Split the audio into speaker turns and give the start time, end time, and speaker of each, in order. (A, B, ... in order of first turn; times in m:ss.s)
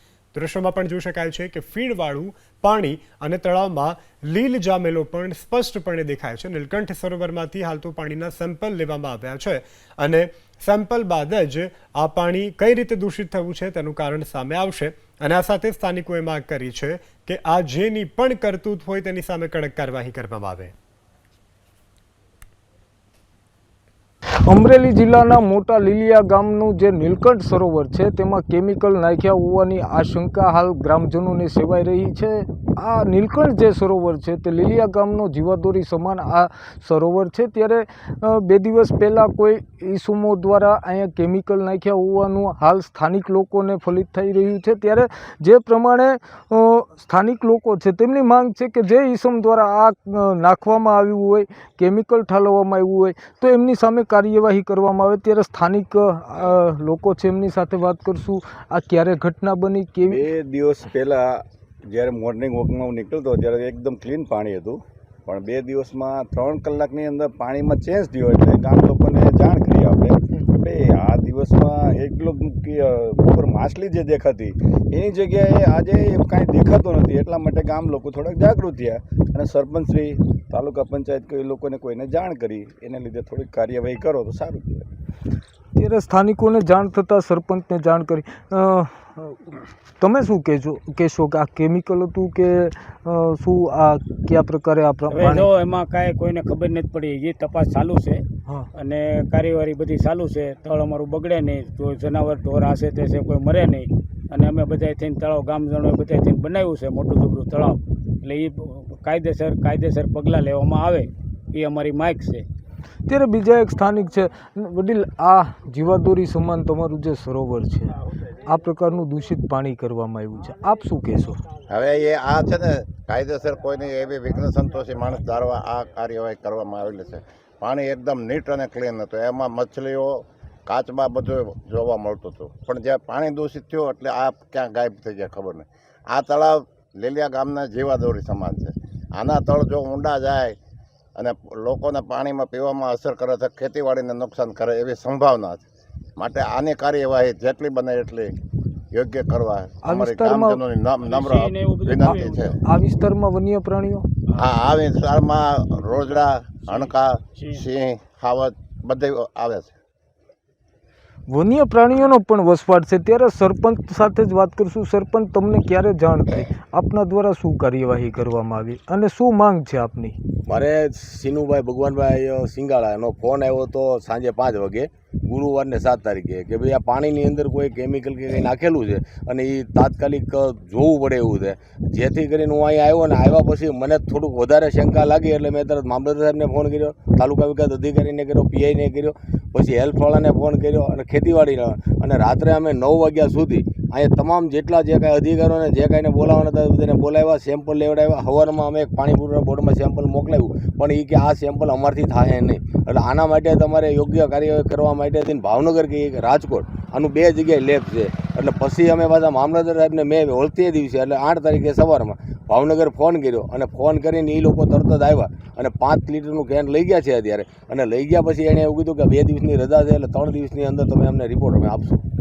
0:00.3-0:20.7 A
0:24.5-1:00.2 B
1:00.1-1:24.9 C
1:25.8-1:35.5 B
1:35.1-1:52.4 D
1:53.1-2:01.4 B
2:01.7-2:20.6 E
2:21.2-2:25.6 E
2:26.2-2:28.3 E
2:28.9-2:32.6 E
2:29.8-2:30.6 B
2:31.0-2:32.6 D
2:32.1-2:34.1 B
2:34.4-2:39.7 E
2:36.7-2:37.6 D
2:41.3-2:50.2 B
2:50.5-3:42.0 F